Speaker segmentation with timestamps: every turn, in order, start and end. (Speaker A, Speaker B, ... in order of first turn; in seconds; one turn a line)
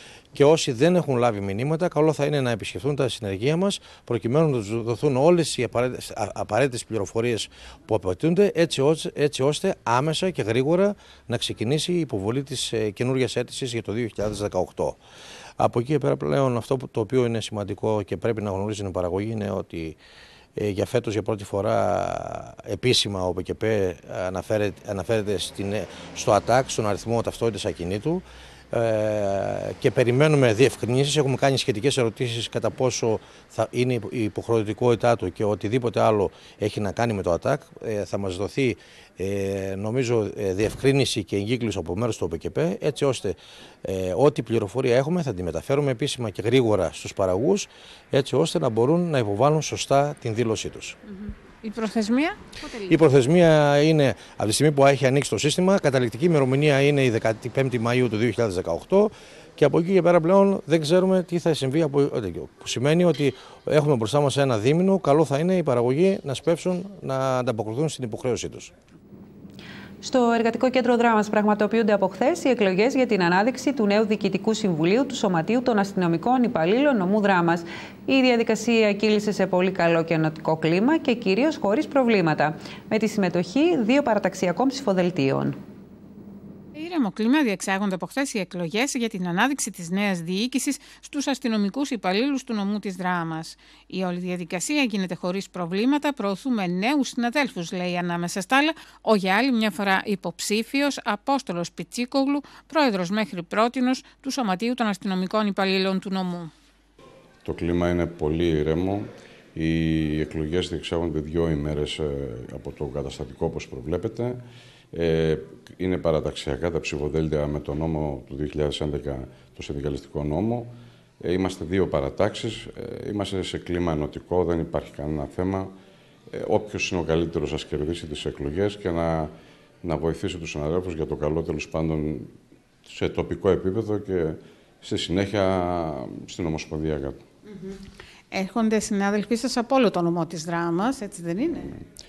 Speaker A: 0.3-15.0
Speaker A: 15.6-20.0
Speaker A: 20.6-51.0
Speaker B: 51.1-53.0
Speaker A: 52.9-68.7
Speaker C: 70.0-85.6
Speaker B: 86.7-106.5
Speaker D: 107.4-125.7
Speaker D: 126.3-129.3
Speaker D: 129.8-132.3
Speaker D: 132.9-137.2
Speaker B: 137.4-141.7